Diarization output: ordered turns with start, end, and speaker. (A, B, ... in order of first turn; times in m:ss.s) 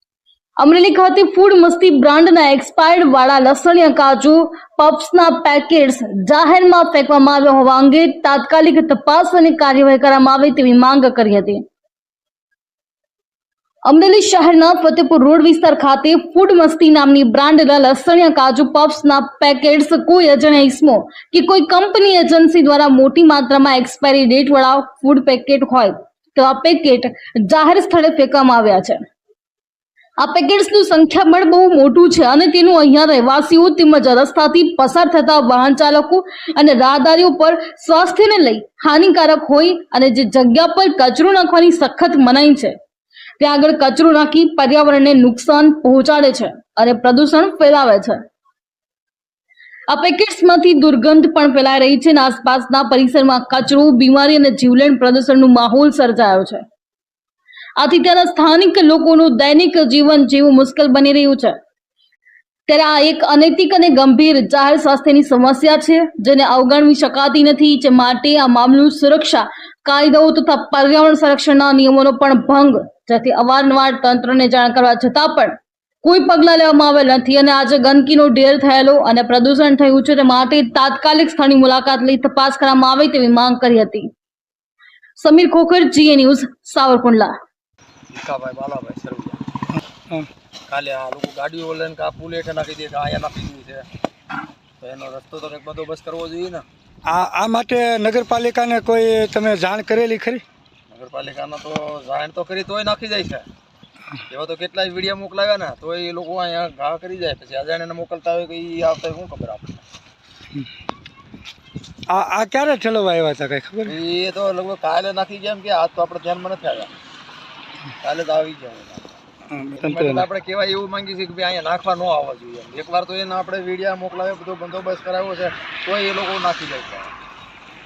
0:00.6-0:11.6 A
0:13.8-0:29.0 A
0:30.2-0:42.7 A
0:43.4-0:48.2 A
0:49.9-0:56.6 A
0:57.8-1:01.6 A
1:02.7-1:24.1 A
1:25.2-1:27.3 A
1:28.1-1:29.4 B
1:30.7-1:33.8 B
1:34.8-1:36.6 B
1:37.1-1:40.4 C
1:40.9-1:43.4 B
1:44.3-1:49.8 B
1:52.1-1:53.9 C
1:53.8-1:56.9 B
1:58.0-1:59.2 B
1:59.5-2:00.2 C
1:59.8-2:07.1 B